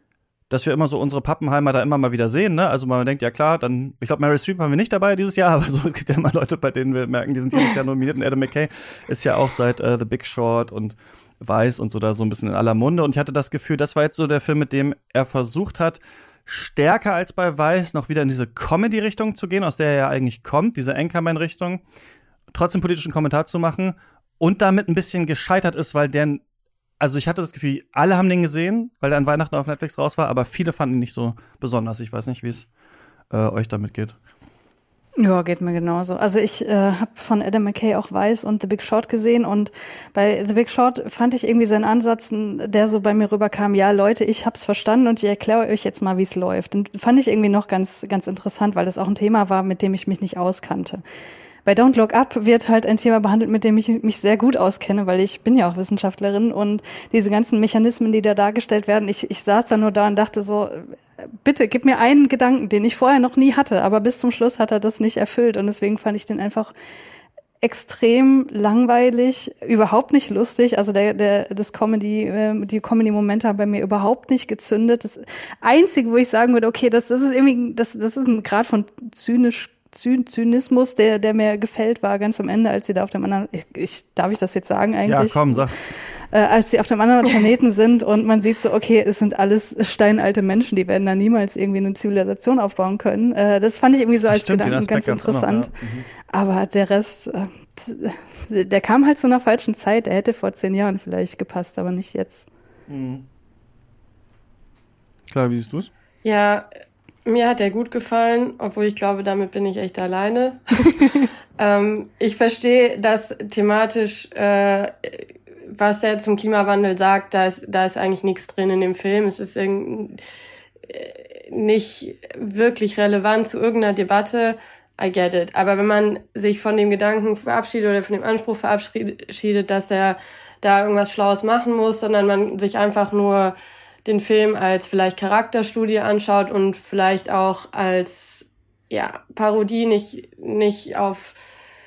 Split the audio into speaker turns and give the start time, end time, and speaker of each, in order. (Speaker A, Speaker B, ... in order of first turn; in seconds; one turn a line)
Speaker A: 0.5-21.8
Speaker A: 22.5-26.4
Speaker A: 27.0-32.7
Speaker A: 33.3-34.1
Speaker B: 35.2-51.0
Speaker B: 51.6-66.7
Speaker B: 67.6-95.7
Speaker A: 85.0-85.7
Speaker A: 94.3-96.1
Speaker B: 96.3-102.5
Speaker A: 102.9-103.2
Speaker A: 105.3-105.9
Speaker C: 106.2-106.7
Speaker C: 107.3-111.0
Speaker C: 111.6-120.2
Speaker C: 120.9-141.4